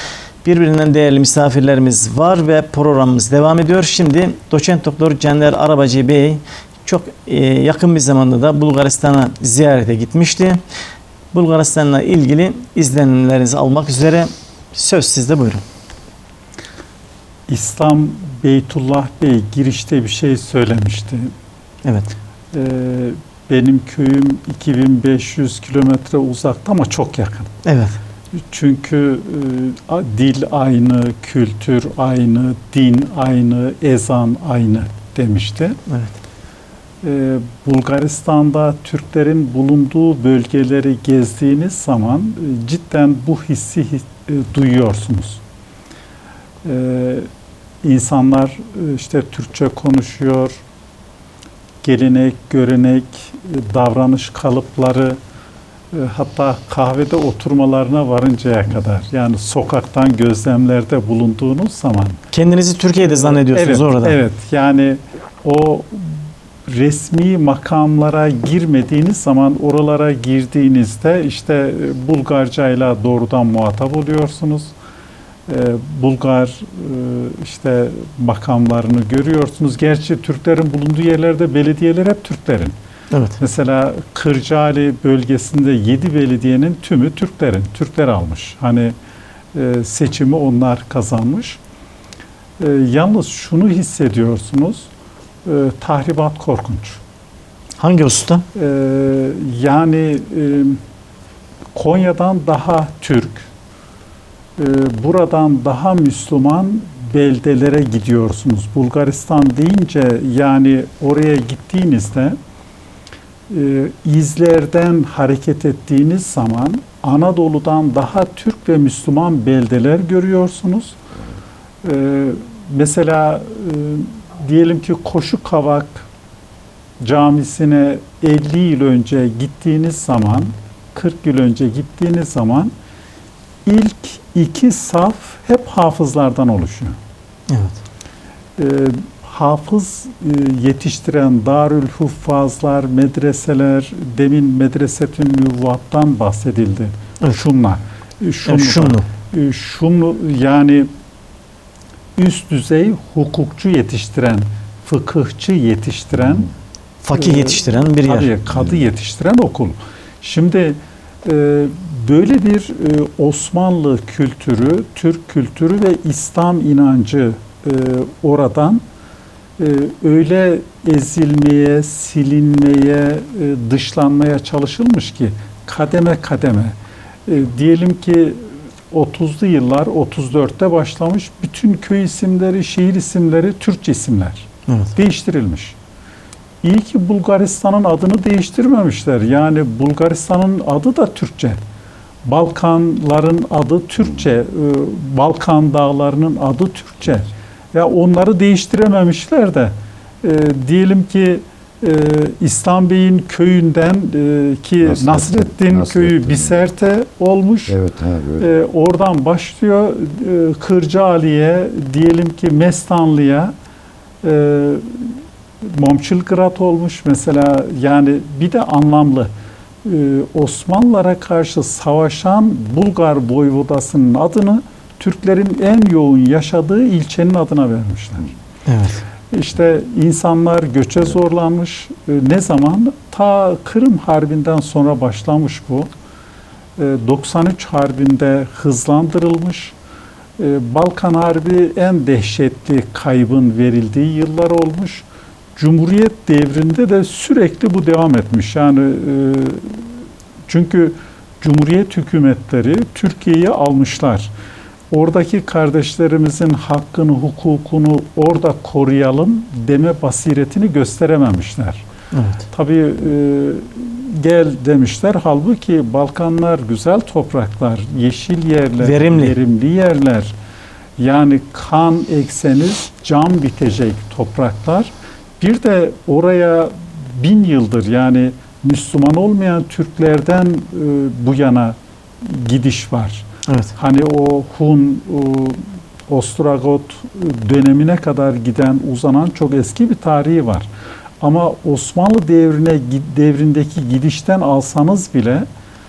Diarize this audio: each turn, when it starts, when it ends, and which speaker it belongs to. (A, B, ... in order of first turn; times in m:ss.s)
0:00.4-0:10.6 A
0:11.3-0:15.6 A
0:17.5-0:21.3 B
0:21.8-0:22.1 A
0:22.5-0:27.5 B
0:27.6-0:28.0 A
0:28.5-0:35.8 B
0:35.9-0:36.2 A
0:37.0-0:45.4 B
0:46.6-0:47.3 B
0:47.8-0:50.6 B
0:51.8-0:55.2 B
0:55.9-1:02.2 B
1:02.3-1:04.2 A
1:03.0-1:14.7 B
1:15.5-1:22.8 B
1:23.1-1:23.4 A
1:23.4-1:29.0 B
1:29.5-1:31.6 B
1:32.6-1:34.9 B
1:35.4-1:37.0 B
1:37.8-1:38.4 A
1:38.6-1:40.8 B
1:41.7-1:43.5 B
1:44.6-1:52.4 B
1:53.5-2:01.0 B
2:01.8-2:06.0 B
2:07.0-2:12.7 B
2:13.7-2:17.0 B
2:17.5-2:17.8 A
2:18.6-2:30.9 B
2:28.5-2:29.1 A
2:32.2-2:36.5 B
2:37.0-2:38.3 A
2:37.1-2:48.8 B
2:49.6-2:56.8 B
2:57.3-3:05.8 B
3:04.7-3:04.9 A
3:06.6-3:11.6 B
3:12.2-3:27.8 B
3:24.8-3:26.6 C
3:27.7-3:28.5 C
3:28.4-3:33.5 B
3:34.2-3:39.3 B
3:39.8-3:48.3 B
3:48.7-3:49.0 A
3:49.3-3:55.9 B
3:56.8-3:59.7 B
4:00.4-4:05.0 B
4:05.6-4:09.8 B
4:10.5-4:14.3 B
4:14.9-4:21.8 B
4:22.1-4:22.4 A
4:22.5-4:30.3 B
4:28.8-4:29.4 A
4:31.0-4:50.7 B
4:51.2-4:55.5 B